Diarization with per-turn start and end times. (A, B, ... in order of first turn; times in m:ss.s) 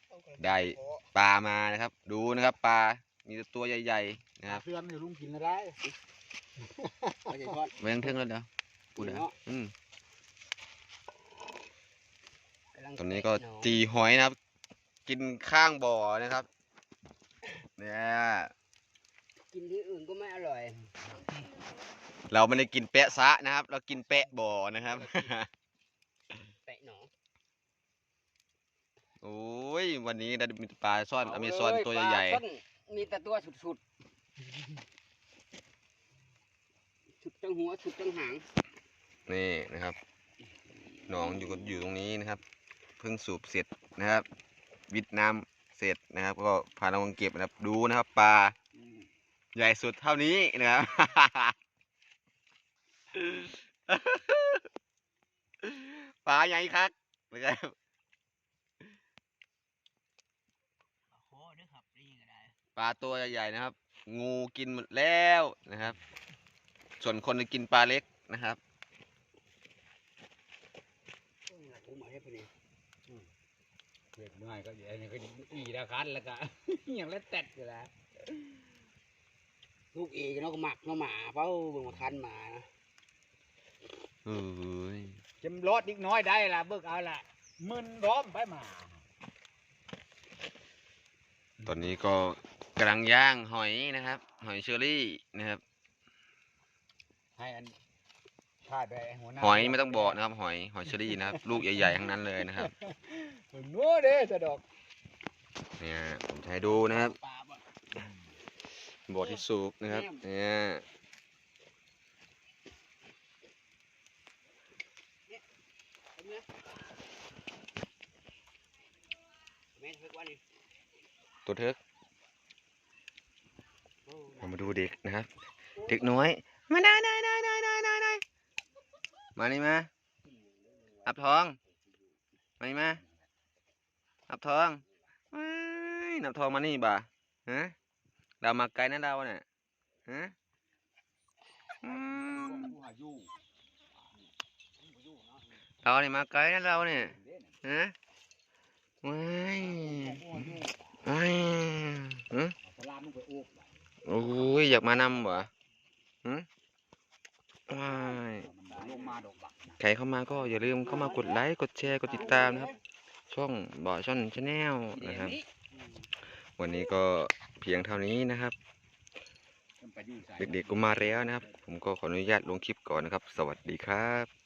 0:00.4-0:04.6 A
0:04.4-0:05.8 B
0:06.8-0:07.5 B
0:07.3-0:07.7 C
0:07.8-0:09.7 A
0:09.0-0:09.3 C
0:12.7-0:13.8 C
0:13.0-0:14.4 A
0:15.0-0:16.5 A
0:17.8-0:18.5 A
0:19.5-0:21.0 C
0:22.3-0:25.5 A
0:24.9-0:25.3 C
0:26.6-0:27.1 C
0:29.2-0:32.4 A
0:31.2-0:33.8 C
0:37.2-0:38.4 C
0:39.3-0:40.0 A
0:41.1-0:42.4 A
0:43.0-0:44.2 A
0:44.9-0:48.5 A
0:49.5-0:51.5 A
0:53.1-0:54.6 A
0:55.6-0:57.7 A
1:01.1-1:02.5 C
1:02.8-1:06.0 A
1:07.0-1:08.6 A
1:11.5-1:12.5 C
1:14.2-1:18.4 B
1:19.9-1:22.7 C
1:24.2-1:25.2 A
1:25.4-1:29.0 B
1:31.6-1:35.6 A
1:37.4-1:37.7 B
1:38.6-1:40.2 B
1:39.4-1:42.7 A
1:40.9-1:44.6 B
1:45.8-1:47.2 A
1:46.7-1:47.6 C
1:49.1-1:50.8 A
1:49.2-1:50.2 C
1:56.2-1:56.4 C
1:59.8-2:00.4 C
2:01.4-2:01.8 A
2:04.0-2:04.7 C
2:04.4-2:05.3 A
2:05.8-2:06.2 C
2:05.8-2:08.2 A
2:09.4-2:09.9 A
2:11.0-2:11.6 A
2:12.6-2:13.0 A
2:14.3-2:17.7 A
2:18.4-2:19.4 A
2:20.1-2:20.3 A
2:21.8-2:22.7 A
2:21.8-2:23.3 B
2:24.8-2:25.4 C
2:25.8-2:27.9 A
2:26.9-2:27.6 B
2:29.0-2:32.5 A
2:29.6-2:31.0 B
2:32.6-2:33.7 B
2:34.0-2:35.5 A
2:37.7-2:38.5 A
2:38.3-2:39.8 B
2:38.8-2:39.1 C
2:39.8-2:42.7 A
2:40.8-2:41.4 C
2:42.0-2:42.8 B
2:42.1-2:42.7 C
2:43.3-2:45.4 A
2:44.9-2:45.4 B
2:46.6-2:48.5 A
2:49.8-2:51.6 B
2:50.4-2:54.3 A